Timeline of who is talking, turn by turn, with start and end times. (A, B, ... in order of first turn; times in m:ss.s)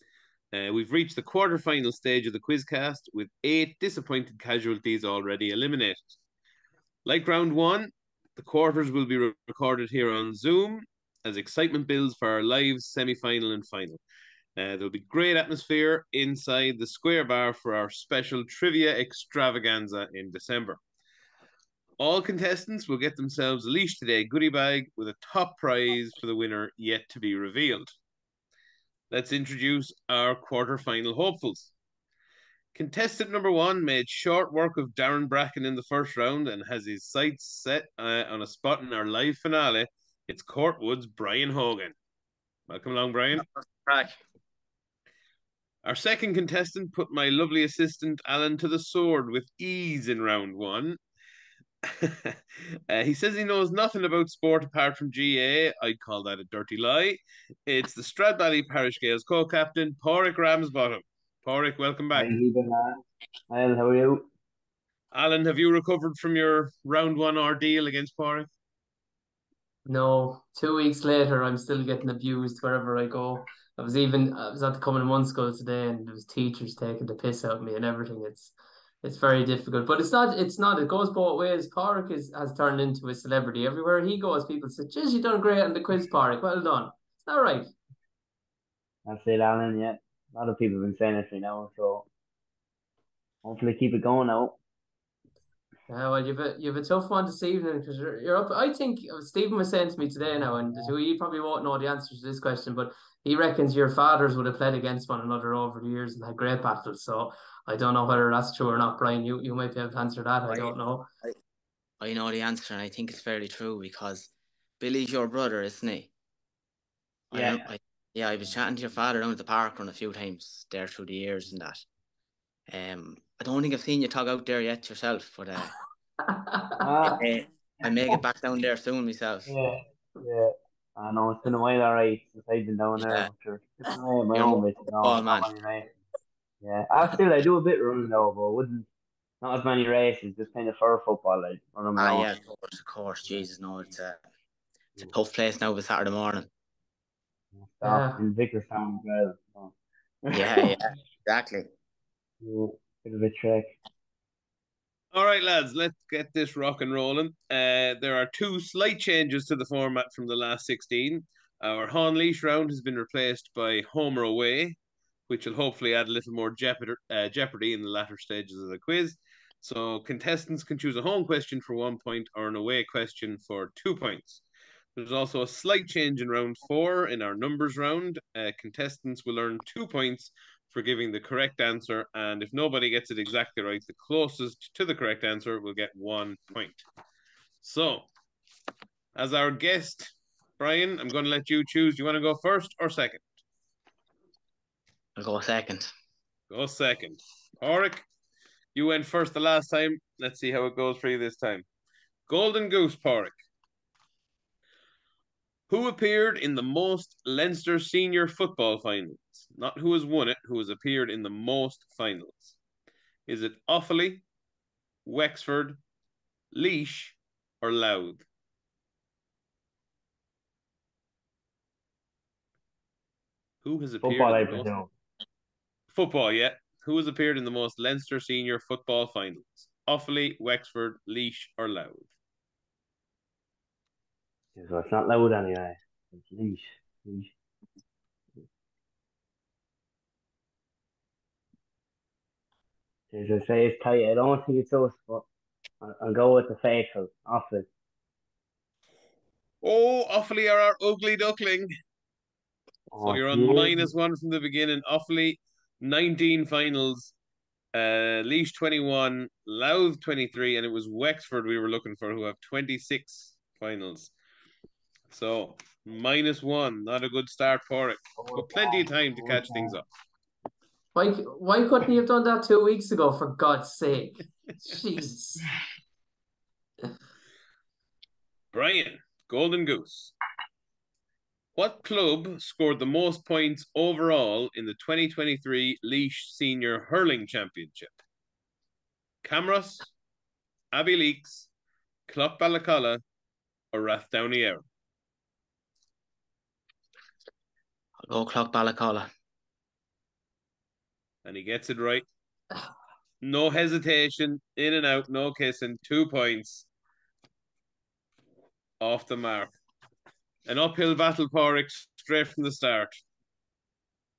0:00.5-0:06.1 A
0:07.0-0:14.0 A
0:14.6-0:20.8 A
0:22.0-0:27.9 A
0:29.1-0:31.7 A
0:32.7-0:42.0 A
0:42.7-0:43.4 A
0:43.4-0:44.2 B
0:45.8-0:51.0 A
0:51.9-0:52.4 A
0:52.9-1:02.4 A
1:02.1-1:04.3 C
1:05.1-1:08.5 A
1:09.8-1:27.7 D
1:29.1-1:32.1 C
1:33.4-1:34.6 C
1:35.9-1:51.1 D
1:50.5-1:51.4 B
1:52.0-1:56.1 B
1:57.3-2:01.8 B
1:57.3-1:57.7 C
2:02.7-2:05.7 B
2:06.3-2:06.8 D
2:06.8-2:07.2 C
2:07.1-2:09.5 B
2:09.5-2:15.9 C
2:13.0-2:13.3 B
2:14.3-2:15.5 B
2:16.6-2:18.9 C
2:19.4-2:22.3 C
2:22.0-2:24.2 B
2:25.1-2:26.5 B
2:27.5-2:29.7 C
2:27.8-2:28.2 D
2:30.2-2:30.7 C
2:30.3-2:31.7 B
2:32.4-2:33.8 C
2:35.1-2:44.8 A
2:45.3-2:54.4 A
2:55.0-3:06.8 A
3:07.6-3:08.1 A
3:09.2-3:13.3 A
3:15.2-3:15.9 B
3:16.5-3:18.0 A
3:18.8-3:21.6 A
3:22.3-3:23.3 A
3:25.7-3:32.6 A
3:33.3-3:34.2 A
3:35.0-3:35.8 A
3:36.5-3:38.2 A
3:43.6-3:44.7 A
3:44.0-3:44.9 C
3:45.9-3:52.1 A
3:54.6-3:57.3 C
4:03.1-4:05.3 C
4:05.8-4:07.7 C
4:09.6-4:11.7 A
4:12.9-4:13.9 C
4:13.0-4:17.1 A
4:17.7-4:24.1 A
4:25.1-4:29.9 A
4:28.2-4:29.8 C
4:30.9-4:35.5 D
4:38.5-4:40.1 A
4:41.6-4:48.0 A
4:49.2-4:49.9 A
4:50.7-4:51.5 A
4:52.1-4:53.0 A
4:53.7-4:54.6 A
4:58.0-4:59.1 B
5:01.2-5:02.0 A
5:03.2-5:06.7 A
5:08.8-5:09.5 A
5:10.5-5:13.0 A